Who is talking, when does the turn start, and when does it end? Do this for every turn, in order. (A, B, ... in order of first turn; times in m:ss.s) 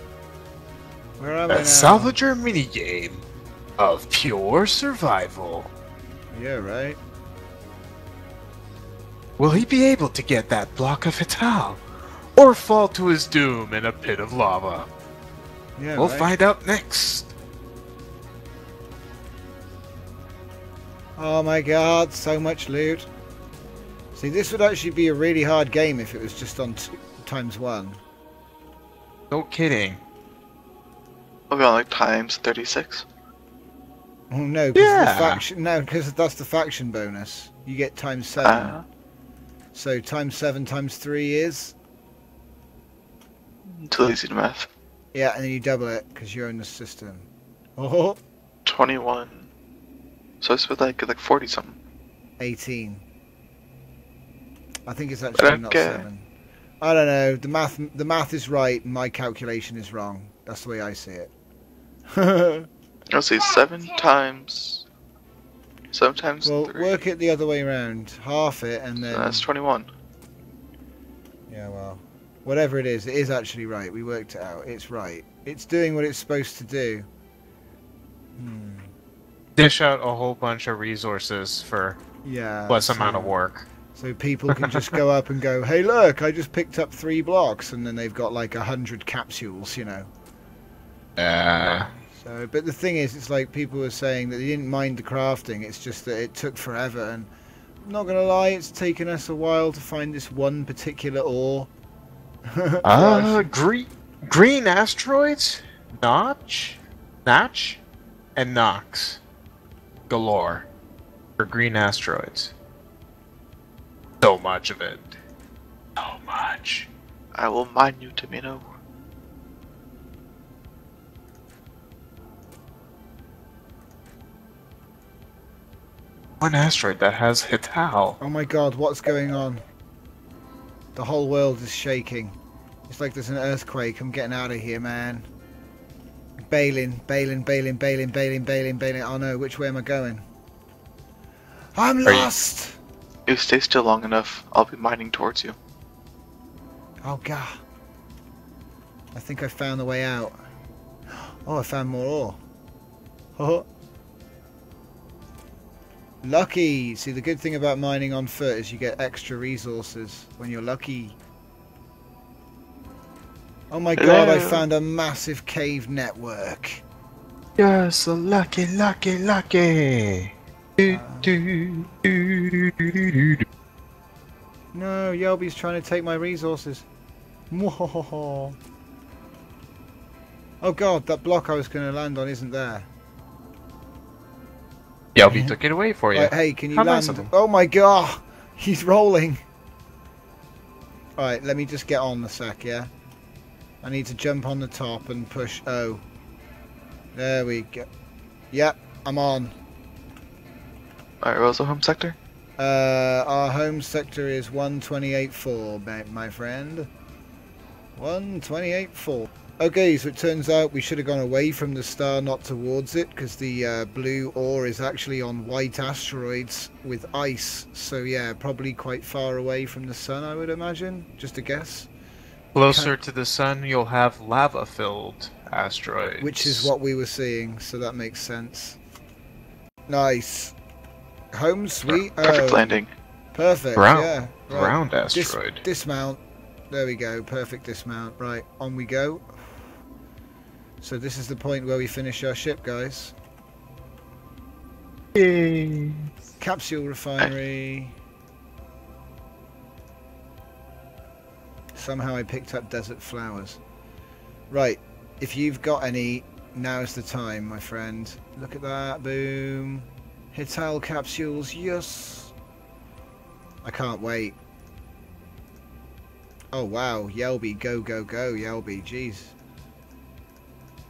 0:01.2-0:02.2 A
0:01.5-0:03.2 B
0:03.8-0:05.7 B
0:06.3-0:07.0 A
0:09.4-0:11.8 B
0:12.3-0:14.9 B
0:15.8-0:16.3 A
0:16.0-0:17.3 B
0:21.2-0:23.1 A
0:24.1-0:28.0 A
0:29.3-0:30.0 B
0:31.5-0:33.0 C
0:34.3-0:38.8 A
0:34.8-0:35.4 B
0:38.4-0:38.8 C
0:39.7-0:41.8 A
0:43.6-0:44.7 C
0:45.1-0:48.2 A
0:48.6-0:49.5 C
0:50.4-0:51.8 C
0:52.4-0:53.0 A
0:54.8-0:56.3 A
0:55.4-0:56.0 C
0:56.8-1:01.3 A
1:02.1-1:02.7 A
1:03.1-1:04.8 C
1:05.9-1:07.0 C
1:06.4-1:09.5 A
1:09.0-1:09.9 C
1:11.5-1:17.1 A
1:18.4-1:18.9 A
1:19.6-1:22.0 B
1:22.2-1:23.3 A
1:22.7-1:23.7 B
1:23.9-1:30.1 A
1:31.2-1:31.9 B
1:32.1-1:37.3 A
1:37.8-1:41.7 A
1:42.5-1:43.5 A
1:42.8-1:47.8 B
1:48.4-1:49.2 B
1:50.1-1:50.7 B
1:51.4-1:52.5 B
1:54.2-1:55.1 B
1:56.0-1:56.9 B
1:57.3-1:58.6 C
2:06.4-2:08.2 B
2:08.2-2:09.6 A
2:11.0-2:12.4 A
2:12.9-2:15.3 A
2:16.5-2:20.2 A
2:21.8-2:22.8 A
2:22.0-2:22.3 B
2:23.3-2:25.6 C
2:27.0-2:27.6 A
2:29.1-2:30.4 A
2:31.2-2:32.4 A
2:33.4-2:33.7 A
2:36.2-2:41.2 A
2:43.7-2:46.8 A
2:44.0-2:44.6 C
2:47.6-2:53.4 B
2:50.8-2:51.3 A
2:54.7-2:56.9 A
2:57.5-2:58.6 A
3:00.6-3:02.9 A
3:05.1-3:07.3 B
3:05.3-3:05.6 A
3:06.1-3:09.4 A
3:11.2-3:12.9 A
3:13.8-3:16.0 A
3:17.1-3:17.8 A
3:18.5-3:19.5 A
3:21.2-3:22.2 C
3:22.6-3:26.9 A
3:28.0-3:41.9 A
3:42.5-3:46.7 B
3:42.6-3:42.9 A
3:46.2-3:48.8 A
3:49.9-3:50.6 A
3:51.3-3:52.7 A
3:52.2-3:52.9 C
3:53.3-3:59.5 A
3:53.8-3:55.6 B
4:00.8-4:03.1 A
4:05.1-4:06.1 B
4:06.4-4:07.9 A
4:11.7-4:13.6 A
4:14.5-4:22.3 A
4:23.6-4:24.4 A
4:26.5-4:29.3 A